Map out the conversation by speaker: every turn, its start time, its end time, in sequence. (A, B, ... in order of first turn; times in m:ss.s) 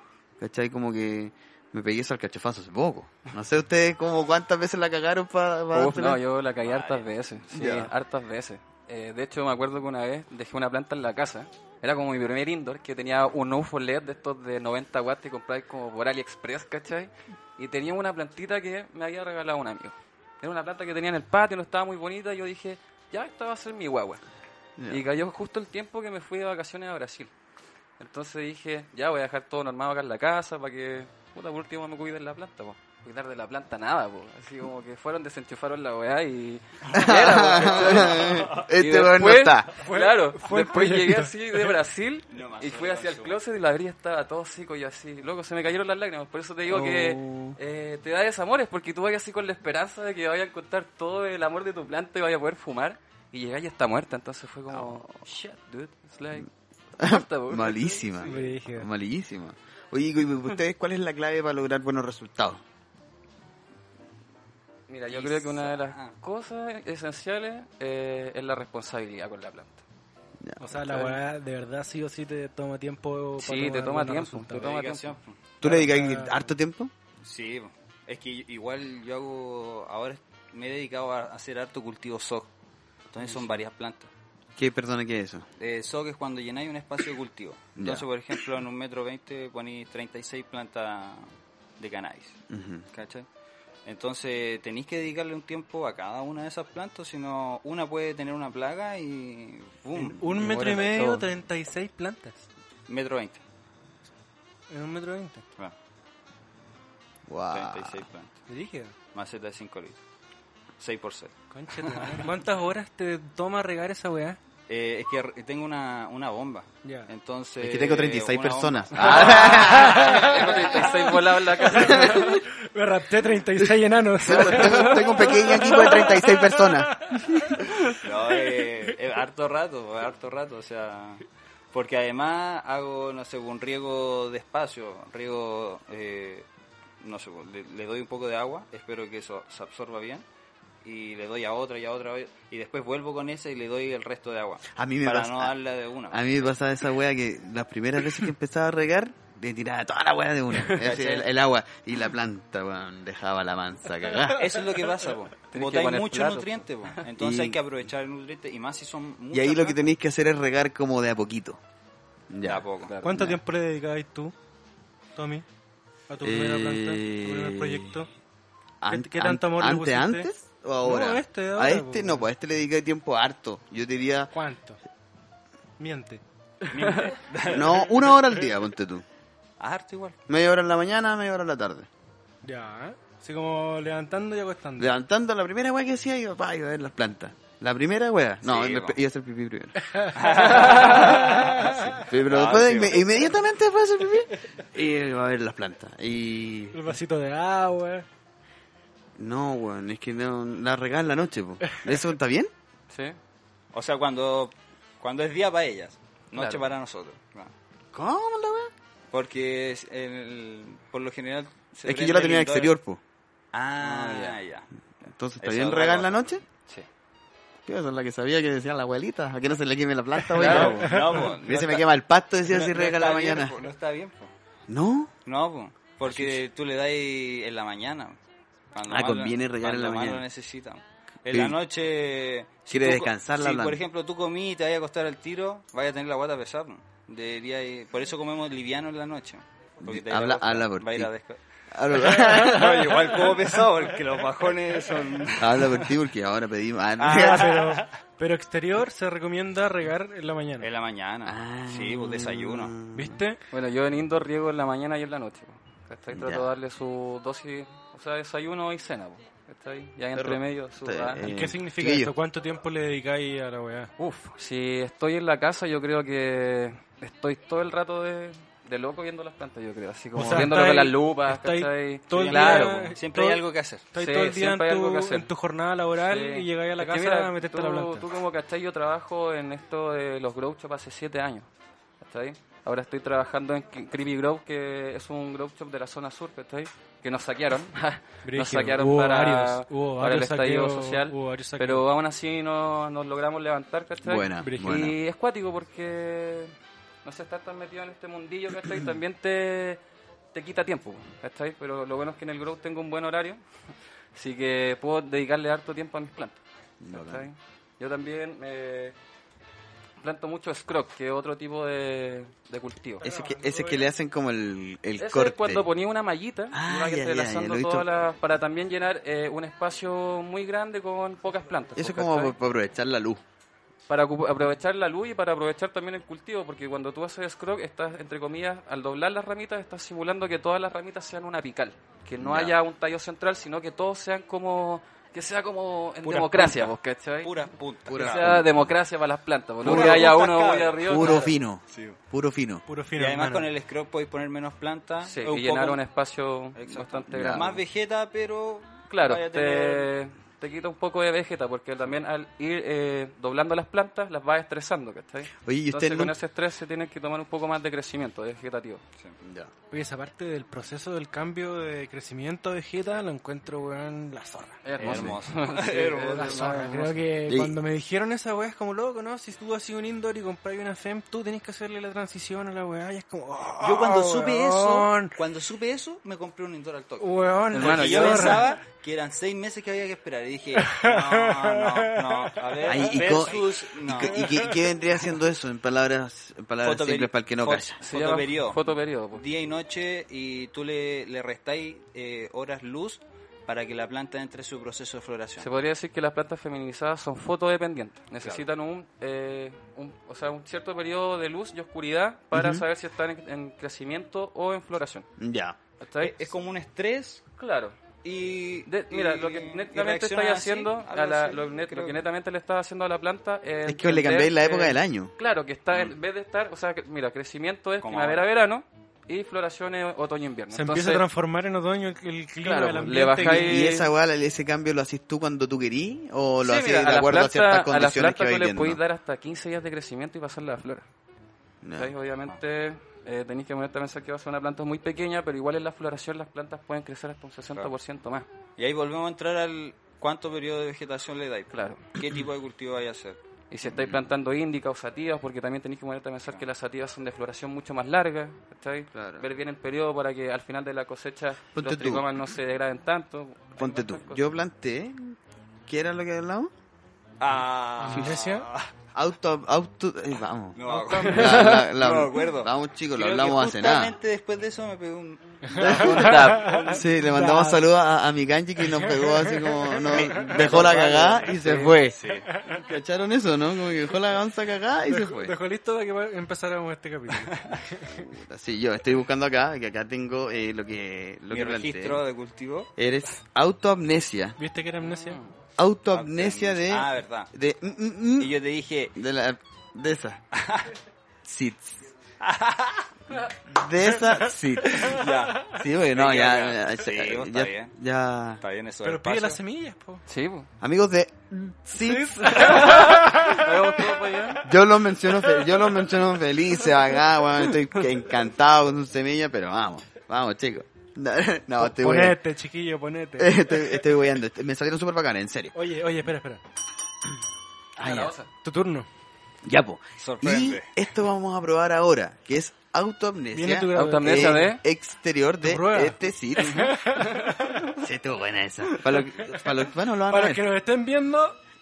0:00.4-0:06.2 A
0:05.7-0:24.2 B
0:06.6-0:07.1 C
0:07.5-0:07.9 A
0:24.8-0:25.0 A
0:24.9-0:27.3 B
0:28.0-0:56.5 B
0:36.9-0:39.7 A
0:37.0-0:38.6 C
0:39.8-0:41.7 D
0:42.3-0:43.4 C
0:46.7-0:47.6 A
0:54.7-0:55.1 A
0:57.0-1:02.6 A
0:57.0-0:58.3 B
0:58.2-0:58.9 D
1:04.9-1:09.8 B
1:05.1-1:06.2 C
1:10.4-1:11.2 A
1:10.6-1:14.7 D
1:13.4-1:15.2 B
1:14.5-1:15.4 C
1:15.6-1:16.9 A
1:15.6-1:16.4 D
1:17.2-1:22.5 C
1:23.1-1:24.1 C
1:24.6-1:25.5 A
1:25.6-1:32.4 C
1:27.8-1:28.1 A
1:32.5-1:32.8 A
1:32.9-1:33.3 C
1:33.8-1:40.4 C
1:40.1-1:42.4 D
1:40.4-1:41.3 B
1:42.9-1:43.4 C
1:44.7-1:45.4 D
1:47.3-1:48.0 A
1:47.5-1:48.4 C
1:48.5-1:48.9 D
1:49.1-1:50.0 C
1:50.8-1:52.3 C
1:51.5-1:54.4 D
1:54.7-2:01.1 C
1:56.8-1:57.1 D
1:57.6-2:00.6 A
1:59.0-2:02.4 B
1:59.7-2:00.4 D
2:01.6-2:07.7 D
2:01.7-2:02.4 A
2:04.2-2:07.6 A
2:07.9-2:16.5 C
2:17.0-2:20.2 C
2:20.8-2:26.3 C
2:24.7-2:25.5 A
2:26.1-2:34.6 A
2:30.8-2:31.3 C
2:34.3-2:39.8 C
2:35.5-2:37.0 B
2:37.2-2:37.6 A
2:39.3-2:41.6 A
2:42.3-2:43.4 A
2:42.4-2:43.0 C
2:42.8-2:43.3 B
2:43.0-2:44.3 D
2:45.2-2:45.5 D
2:46.1-2:48.1 D
2:46.2-2:48.0 A
2:48.8-2:54.3 A
2:48.9-2:50.3 D
2:50.8-2:52.3 D
2:54.3-2:54.8 D
2:55.8-2:56.2 D
2:56.7-2:58.3 C
2:56.8-2:57.1 B
2:57.4-2:59.0 A
2:59.6-3:00.2 C
3:00.3-3:01.9 A
3:02.4-3:04.9 D
3:04.8-3:16.9 A
3:08.4-3:09.0 C
3:09.8-3:12.0 D
3:10.2-3:13.1 C
3:16.7-3:18.1 D
3:19.2-3:22.5 A
3:22.9-3:23.2 B
3:23.7-3:27.5 C
3:26.4-3:26.6 B
3:27.9-3:28.7 A
3:29.1-3:32.7 C
3:31.8-3:33.0 A
3:33.5-3:34.7 C
3:33.8-3:34.4 B
3:35.0-3:36.4 A
3:35.4-3:36.4 C
3:37.7-3:43.6 A
3:40.4-3:40.9 B
3:40.4-3:41.9 C
3:40.8-3:41.3 D
3:42.5-3:44.3 C
3:44.7-3:45.1 A
3:45.2-3:48.2 C
3:46.1-3:46.4 A
3:48.7-4:01.4 C
3:48.9-3:50.2 A
3:51.3-3:51.6 A
3:52.7-3:53.8 A
3:59.8-4:01.1 A
4:01.7-4:03.2 A
4:02.0-4:05.9 C
4:05.4-4:07.6 A
4:07.0-4:07.8 C
4:07.1-4:10.7 D
4:10.6-4:12.7 C
4:11.2-4:13.2 A
4:12.9-4:13.4 D
4:13.5-4:21.3 B
4:16.1-4:16.5 A
4:20.2-4:22.1 A
4:21.2-4:23.9 D
4:24.0-4:32.9 B
4:30.2-4:38.1 D
4:32.1-4:33.8 C
4:34.0-4:35.3 B
4:36.0-4:41.5 B
4:42.0-4:59.8 B
4:48.2-4:51.8 D
4:54.0-4:55.0 A
4:54.4-4:54.8 D
5:00.3-5:03.4 B
5:04.1-5:09.0 B
5:06.8-5:07.3 A
5:10.0-5:13.0 B
5:13.0-5:13.9 D
5:13.0-5:15.7 A
5:15.0-5:22.4 B
5:16.5-5:17.9 A
5:21.8-5:23.2 A
5:23.9-5:41.3 B
5:32.2-5:32.6 A
5:36.0-5:36.7 D
5:37.2-5:38.3 C
5:37.9-5:38.7 A
5:39.6-5:40.1 A
5:39.6-5:42.0 C
5:40.8-5:42.6 A
5:42.7-5:43.5 D
5:43.0-5:45.8 C
5:45.0-5:47.6 B
5:46.6-5:49.9 C
5:47.1-5:47.5 A
5:48.9-5:58.8 B
5:55.5-5:56.1 A
5:59.2-5:59.5 A
5:59.7-6:04.6 D
6:04.6-6:07.0 B
6:04.8-6:06.8 C
6:04.8-6:05.2 A
6:06.1-6:15.2 D
6:07.3-6:07.6 A
6:13.6-6:24.6 C
6:17.0-6:18.5 D
6:17.5-6:18.5 B
6:20.7-6:23.0 D
6:22.6-6:27.8 A
6:24.2-6:24.6 D
6:26.6-6:35.5 C
6:27.8-6:29.2 B
6:35.4-6:45.1 B
6:42.3-6:42.6 A
6:45.2-6:45.6 A
6:45.8-6:46.3 B
6:46.0-6:47.2 C
6:47.4-6:47.8 B
6:48.0-6:52.0 C
6:48.7-7:01.0 B
6:53.7-6:55.1 A
6:57.8-6:58.3 C
7:00.5-7:03.6 D
7:02.4-7:03.9 B
7:03.2-7:08.8 A
7:06.4-7:10.9 B
7:11.6-7:11.9 A
7:11.8-7:18.3 B
7:18.6-7:23.2 C
7:21.5-7:21.8 B
7:23.5-7:34.2 B
7:23.6-7:24.0 A
7:28.9-7:29.3 A
7:31.6-7:32.1 A
7:33.6-7:35.2 A
7:35.7-7:36.5 A
7:37.2-7:38.7 C
7:37.8-7:38.5 D
7:39.0-7:44.0 A
7:40.6-7:46.9 C
7:40.6-7:41.2 D
7:41.0-7:41.7 B
7:45.4-7:47.6 D
7:45.7-7:46.6 B
7:46.7-7:55.4 A
7:48.7-7:50.4 D
7:49.8-7:52.3 C
7:51.3-7:51.8 B
7:52.1-7:52.6 D
7:54.9-7:58.0 D
7:57.9-8:02.0 A
8:01.3-8:02.7 C
8:02.8-8:04.4 A
8:04.4-8:05.2 D
8:05.6-8:08.4 A
8:05.9-8:07.3 C
8:08.2-8:09.0 C
8:09.0-8:10.2 A
8:10.4-8:10.7 C
8:11.2-8:11.9 A
8:12.2-8:12.9 C
8:13.5-8:18.4 A
8:14.7-8:17.7 C
8:18.4-8:19.4 C
8:18.8-8:20.0 D
8:20.1-8:20.5 B
8:20.6-8:23.2 A
8:21.7-8:23.6 D
8:22.3-8:24.5 B
8:24.4-8:32.2 A
8:31.6-8:33.7 D
8:33.2-8:35.5 A
8:35.5-8:36.4 D
8:37.8-8:38.2 A
8:37.8-8:38.3 B
8:38.4-8:38.9 D
8:39.4-8:46.8 A
8:40.0-8:40.7 C
8:43.3-8:44.6 D
8:43.7-8:44.6 B
8:45.4-8:47.6 D
8:46.8-8:47.5 B
8:47.8-8:50.4 A
8:48.7-8:49.0 D
8:50.1-8:51.4 D